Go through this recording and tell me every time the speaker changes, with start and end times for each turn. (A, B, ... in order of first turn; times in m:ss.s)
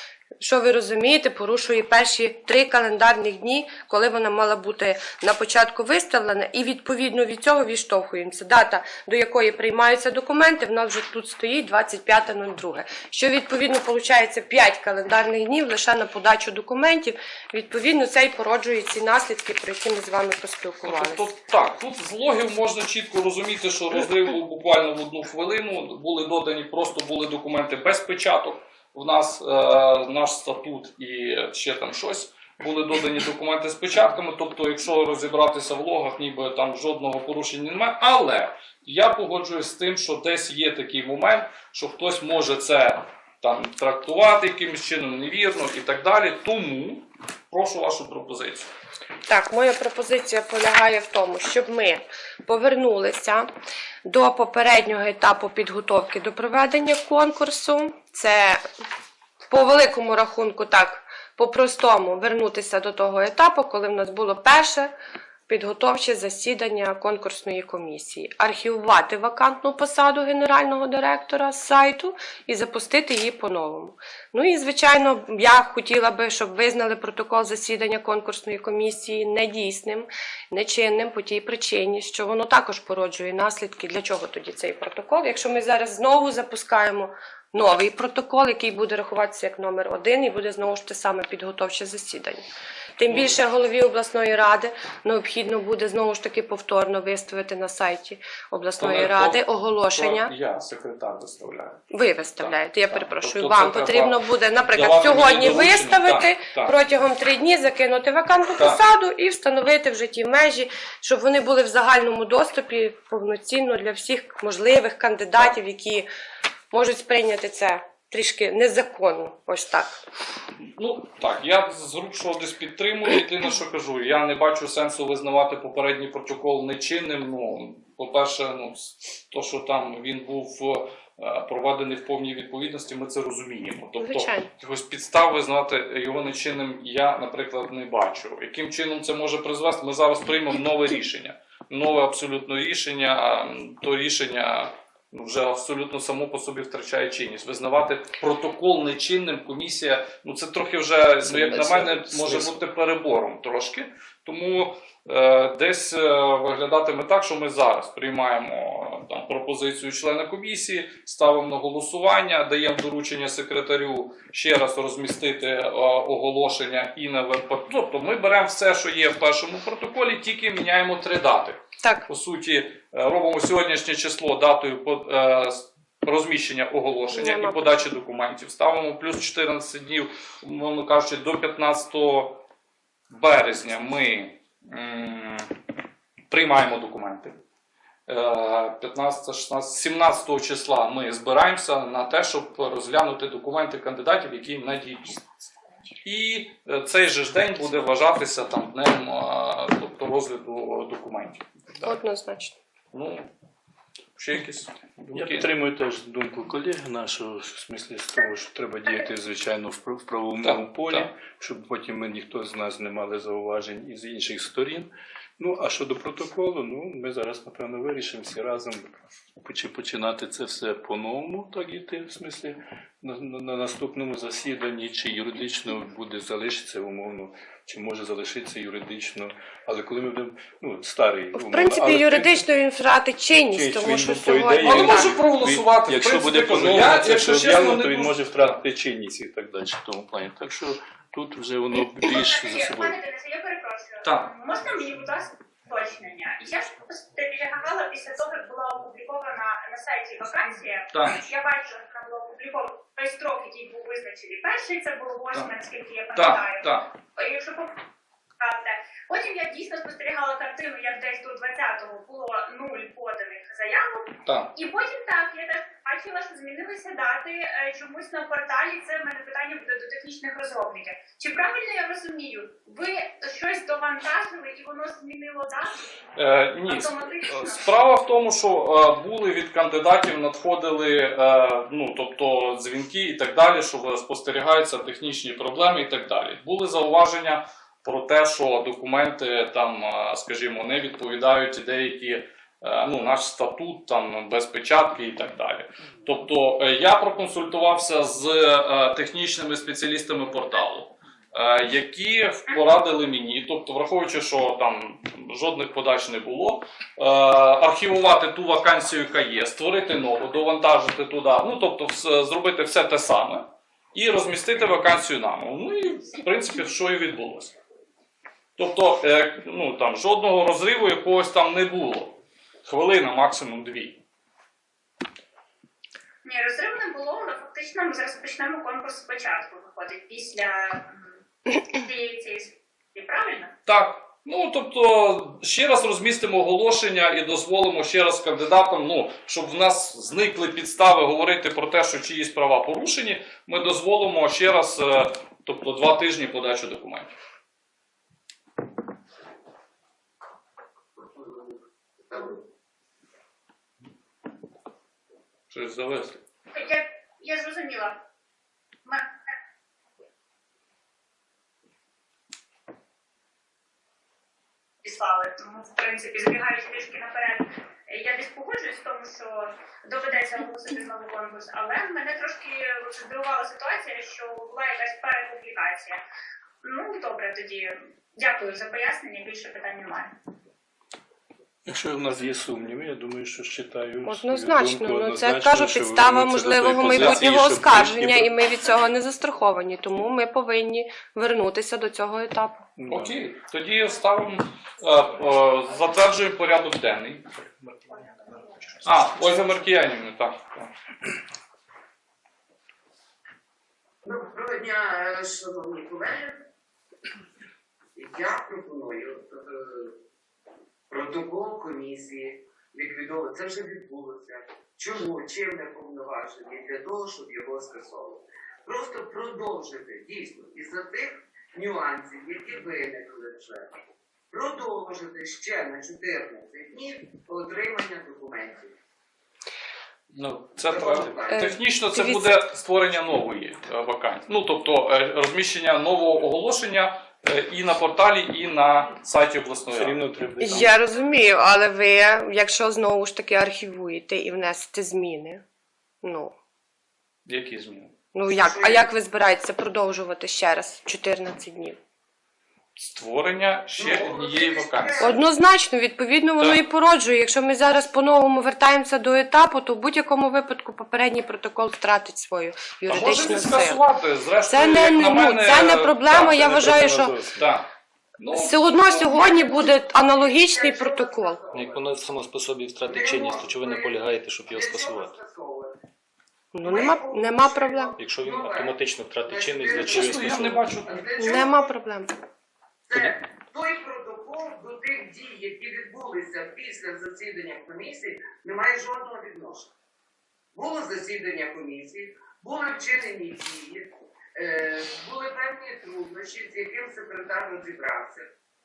0:00.4-0:21.3 A
0:20.8-0:48.7 B
0:49.3-0:53.5 A
0:54.0-0:58.6 A
0:59.5-1:04.9 A
1:05.5-1:32.4 A
1:33.0-1:40.3 A
1:33.1-1:33.4 B
1:38.8-1:39.4 B
1:40.0-1:46.8 B
1:41.9-1:56.1 A
1:56.7-2:00.0 A
2:00.8-3:02.4 B
2:14.0-2:14.5 A
2:31.3-2:32.5 C
2:57.1-2:57.8 A
3:03.1-3:05.5 B
3:06.3-3:07.4 B
3:08.1-3:15.2 B
3:16.0-3:22.0 B
3:21.8-3:22.5 A
3:22.9-3:23.3 B
3:24.2-3:25.5 B
3:25.1-3:52.4 D
3:30.4-3:31.1 B
3:51.3-3:55.2 A
3:53.5-4:03.0 D
3:54.6-3:58.6 B
4:02.0-4:17.8 E
4:04.0-4:04.3 B
4:10.9-4:11.2 B
4:16.1-4:16.9 B
4:18.4-4:35.8 E
4:24.2-4:24.5 B
4:36.2-5:17.6 B
4:36.6-4:37.7 E
5:18.6-5:24.0 B
5:26.2-5:33.5 E
5:33.7-5:47.1 B
5:51.0-5:52.4 F
5:55.5-5:56.2 B
5:56.5-5:58.0 E
5:58.8-5:59.1 E
6:04.8-6:16.0 E
6:16.6-6:20.1 E
6:21.7-6:28.3 D
6:24.1-6:32.7 A
6:26.8-6:27.2 B
6:32.8-6:33.2 D
6:32.9-6:37.4 B
6:37.6-6:38.0 D
6:38.8-6:40.7 B
6:44.0-6:46.4 F
6:48.0-6:49.9 F
6:50.9-7:03.8 F
7:04.3-7:08.8 F
7:10.1-7:20.0 B
7:10.6-7:11.6 F
7:11.4-7:12.4 A
7:19.7-7:20.8 D
7:20.4-7:25.4 A
7:26.0-7:26.4 A
7:27.2-7:27.9 B
7:28.1-7:31.8 A
7:28.4-7:28.9 F
7:32.8-7:35.2 B
7:33.8-7:35.2 F
7:35.0-7:43.8 A
7:42.9-7:46.6 B
7:44.5-7:47.2 A
7:46.1-7:47.5 D
7:47.4-7:48.9 B
7:48.3-7:51.4 A
7:48.8-7:51.9 F
7:51.5-7:55.1 C
7:52.8-7:55.8 F
7:56.5-7:58.0 A
7:56.6-8:01.7 F
7:58.0-8:00.8 C
7:59.8-8:01.1 B
8:01.2-8:02.1 A
8:02.9-8:09.7 F
8:10.5-8:18.3 F